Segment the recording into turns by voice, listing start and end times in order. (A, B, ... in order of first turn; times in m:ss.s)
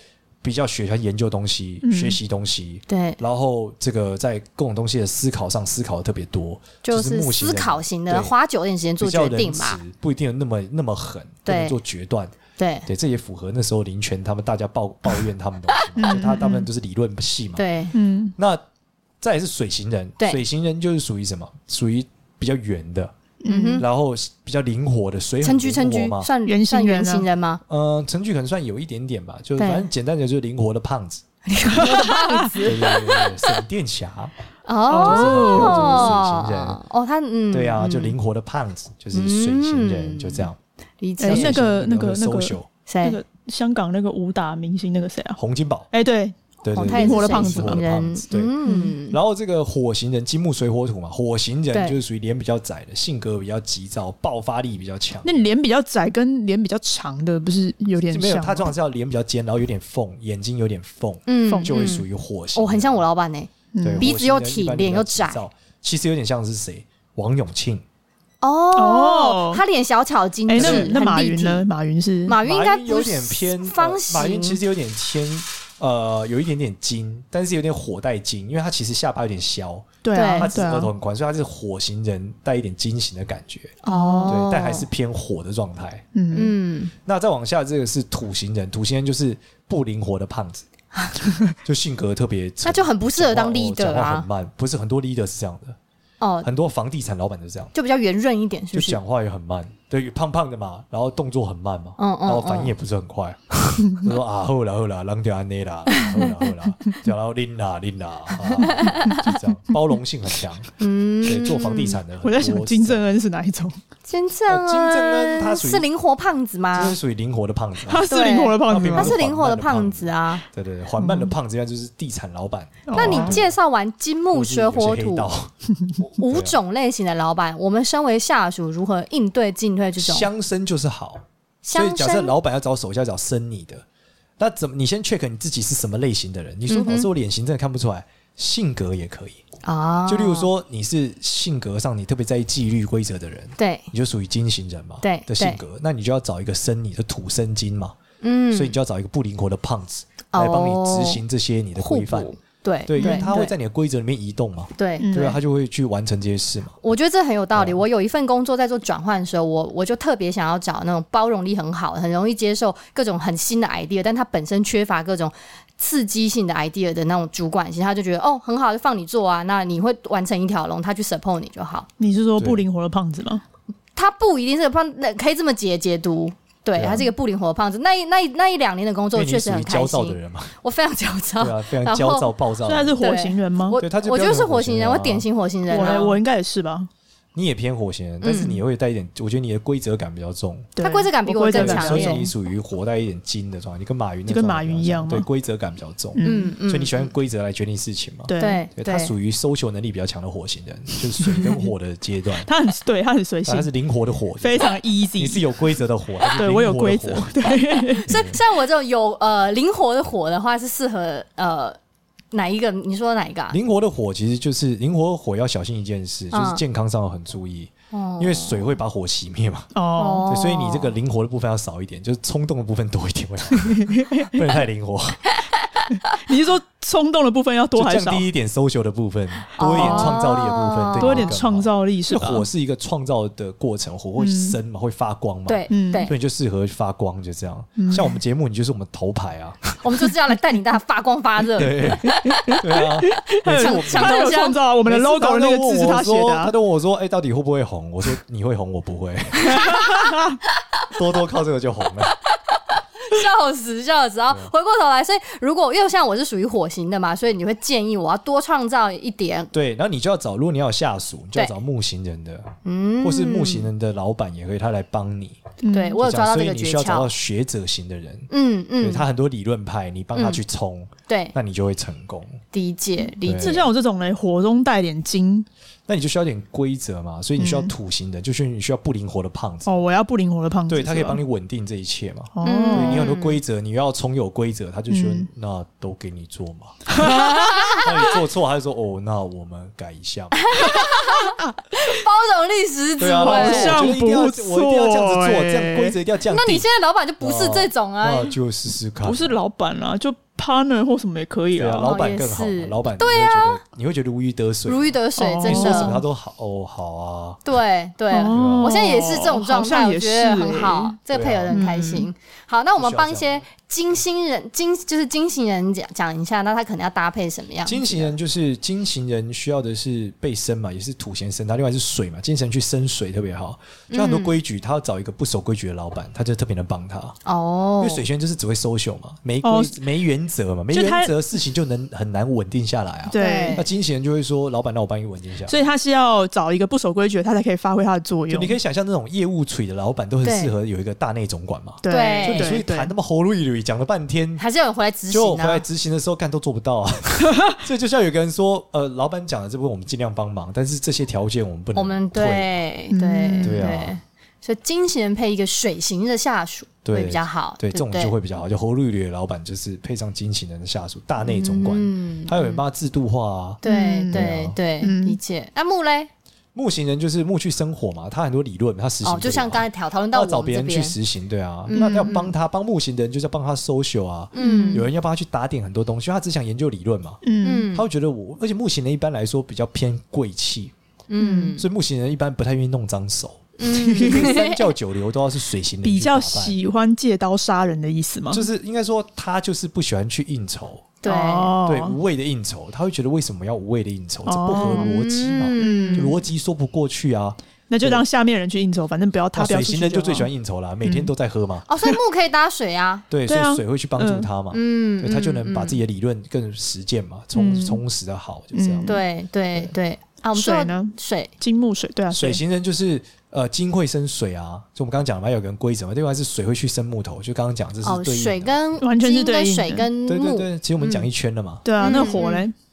0:00.4-0:08.3 A
0:01.8-0:02.2 B
0:02.9-0:03.2 C
0:06.8-0:09.8 C
0:09.0-0:12.3 A
0:11.4-0:11.8 C
0:12.6-0:12.9 C
0:12.9-0:17.6 A
0:15.7-0:16.5 C
0:16.0-0:16.6 B
0:17.6-0:17.9 C
0:17.9-0:18.3 B
0:18.4-0:18.6 A
0:19.2-0:23.1 A
0:23.4-0:23.8 B
0:23.4-0:23.8 C
0:23.8-0:26.3 A
0:25.4-0:27.6 C
0:26.4-0:27.3 B
0:27.7-0:31.2 A
0:29.6-0:29.9 C
0:31.5-0:33.3 C
0:31.7-0:32.7 B
0:32.5-0:34.3 A
0:34.6-0:38.2 C
0:34.9-0:36.1 B
0:35.0-0:36.8 A
0:37.5-0:40.6 A
0:39.1-0:40.5 C
0:41.0-0:41.6 C
0:41.2-0:45.4 B
0:41.3-0:42.7 A
0:42.9-0:43.2 C
0:45.4-0:45.9 A
0:45.9-0:47.8 B
0:46.6-0:48.5 A
0:46.7-0:49.2 C
0:48.6-0:49.0 B
0:49.1-0:55.5 A
0:51.7-0:52.0 C
0:55.2-0:58.7 B
0:58.1-1:03.0 A
1:01.3-1:05.4 C
1:01.5-1:01.9 B
1:03.7-1:04.1 B
1:03.8-1:07.8 A
1:08.4-1:11.6 C
1:08.7-1:09.6 B
1:10.5-1:12.4 B
1:10.6-1:11.0 A
1:12.3-1:14.6 C
1:12.4-1:26.0 A
1:20.0-1:20.9 B
1:20.1-1:20.5 C
1:23.8-1:24.9 C
1:23.9-1:24.3 B
1:26.1-1:26.5 B
1:26.3-1:26.9 C
1:27.0-1:30.6 A
1:31.6-1:35.8 A
1:32.6-1:34.2 C
1:36.2-1:36.5 C
1:36.4-1:37.7 A
1:37.7-1:39.0 C
1:38.7-1:50.7 A
1:42.0-1:42.7 C
1:45.9-1:46.3 C
1:48.6-1:49.3 C
1:50.8-1:52.0 C
1:51.2-1:53.0 A
1:52.2-1:53.8 B
1:54.1-1:57.0 C
1:54.5-1:55.8 A
1:56.7-1:58.1 A
1:57.8-1:59.2 B
1:58.1-2:00.4 C
1:58.7-2:03.5 A
2:01.0-2:01.3 B
2:02.9-2:03.4 B
2:02.9-2:05.3 C
2:04.3-2:05.5 A
2:06.1-2:10.3 C
2:06.2-2:06.6 A
2:10.0-2:13.8 A
2:11.6-2:12.3 C
2:14.4-2:19.4 A
2:16.7-2:17.1 C
2:19.6-2:20.5 C
2:20.1-2:28.0 A
2:23.6-2:23.9 C
2:25.0-2:25.6 C
2:28.2-2:28.7 C
2:28.5-2:36.8 A
2:30.3-2:31.2 C
2:31.8-2:33.5 C
2:33.0-2:33.3 B
2:34.8-2:35.4 C
2:35.0-2:35.4 B
2:36.8-2:51.9 C
2:37.5-2:37.8 A
2:52.0-2:53.4 B
2:52.4-2:52.6 A
2:54.0-3:02.3 C
2:56.7-2:57.1 A
2:59.1-3:00.5 A
3:01.4-3:03.0 A
3:02.6-3:03.8 B
3:03.0-3:06.2 C
3:03.8-3:05.2 A
3:05.7-3:06.9 B
3:07.3-3:10.7 A
3:08.2-3:08.6 C
3:10.8-3:12.3 B
3:10.8-3:12.2 C
3:11.5-3:22.5 A
3:14.3-3:15.3 B
3:16.1-3:16.5 B
3:16.2-3:17.1 C
3:18.3-3:18.6 B
3:18.4-3:19.1 C
3:21.2-3:21.7 B
3:22.4-3:23.7 B
3:23.4-3:27.5 A
3:24.4-3:25.5 B
3:26.3-3:28.1 B
3:28.1-3:28.4 A
3:28.1-3:31.8 C
3:32.3-3:33.6 C
3:33.5-3:39.7 A
3:36.3-3:36.6 C
3:37.9-3:38.7 C
3:39.7-3:40.3 B
3:39.9-3:41.0 C
3:40.2-3:45.2 A
3:43.5-3:44.4 B
3:45.9-3:48.2 B
3:47.7-3:59.8 A
3:49.6-3:51.4 C
3:49.7-3:50.2 B
3:51.0-3:52.4 B
3:54.2-3:54.6 B
3:55.5-3:56.1 C
3:55.7-3:56.1 B
3:57.8-3:58.2 B
3:59.8-4:02.4 C
4:01.5-4:09.8 A
4:02.0-4:06.5 B
4:03.5-4:04.6 C
4:09.5-4:10.4 B
4:10.9-4:12.1 A
4:13.0-4:19.5 C
4:19.5-4:25.4 A
4:22.6-4:23.7 C
4:25.6-4:26.0 B
4:25.7-4:27.1 C
4:26.0-4:28.3 A
4:28.3-4:29.0 C
4:28.8-4:32.4 A
4:30.1-4:30.4 C
4:31.1-4:31.3 C
4:32.5-4:33.7 C
4:33.2-4:33.6 A
4:33.4-4:35.5 B
4:35.9-4:39.7 A
4:37.4-4:37.7 B
4:39.6-4:41.2 B
4:40.7-4:47.1 A
4:42.3-4:43.1 B
4:42.4-4:43.4 C
4:44.9-4:45.3 B
4:46.9-4:47.8 B
4:47.0-4:48.1 C
4:47.8-4:50.7 A
4:50.4-4:53.8 C
4:50.6-4:51.3 B
4:53.0-4:56.6 A
4:53.2-4:56.0 B
4:56.3-4:58.3 C
4:57.2-4:59.4 A
4:59.0-5:01.9 B
5:01.6-5:07.5 A
5:01.8-5:03.6 C
5:04.7-5:06.0 C
5:05.2-5:06.0 B
5:07.4-5:18.1 C
5:08.1-5:11.0 B
5:08.3-5:08.8 A
5:11.1-5:11.6 A
5:11.5-5:12.1 B
5:12.8-5:13.4 A
5:17.6-5:27.2 A
5:23.9-5:24.4 C
5:27.2-5:28.0 C
5:27.8-5:35.6 A
5:29.4-5:29.8 B
5:30.7-5:31.1 B
5:33.1-5:33.6 B
5:33.1-5:33.6 C
5:35.5-5:38.6 B
5:38.3-5:44.4 A
5:40.2-5:40.5 C
5:41.8-5:42.9 B
5:41.9-5:42.6 C
5:44.4-5:45.6 C
5:45.1-5:52.6 A
5:51.7-5:58.1 C
5:52.9-5:53.6 B
5:53.4-5:53.9 A
5:56.8-6:04.6 A
6:01.2-6:02.6 C
6:03.6-6:06.1 C
6:03.6-6:04.2 B
6:04.8-6:05.2 B
6:06.5-6:17.2 A
6:09.0-6:11.0 C
6:11.7-6:12.3 C
6:11.7-6:12.1 B
6:14.3-6:14.9 C
6:14.4-6:14.8 B
6:17.2-6:17.7 B
6:17.4-6:17.8 C
6:17.7-6:20.7 A
6:21.1-6:21.6 C
6:21.2-6:21.5 B
6:21.6-6:26.6 A
6:23.6-6:24.7 C
6:23.7-6:24.3 B
6:25.8-6:28.4 B
6:28.3-6:30.9 A
6:31.0-6:31.6 C
6:31.0-6:32.0 B
6:31.6-6:38.0 A
6:34.2-6:34.9 B
6:34.5-6:36.2 C
6:35.6-6:36.1 B
6:37.7-6:40.3 B
6:39.3-6:41.7 A
6:40.8-6:41.1 B
6:41.7-6:43.0 C
6:43.1-6:48.9 A
6:43.3-6:44.3 B
6:44.5-6:45.8 C
6:47.3-6:47.8 B
6:48.5-6:49.0 B
6:48.8-6:51.3 C
6:50.3-6:52.4 B
6:52.1-6:58.6 A
6:57.8-7:01.0 C
6:58.8-6:59.9 B
7:00.0-7:02.2 A
7:01.6-7:02.5 B
7:01.8-7:02.5 C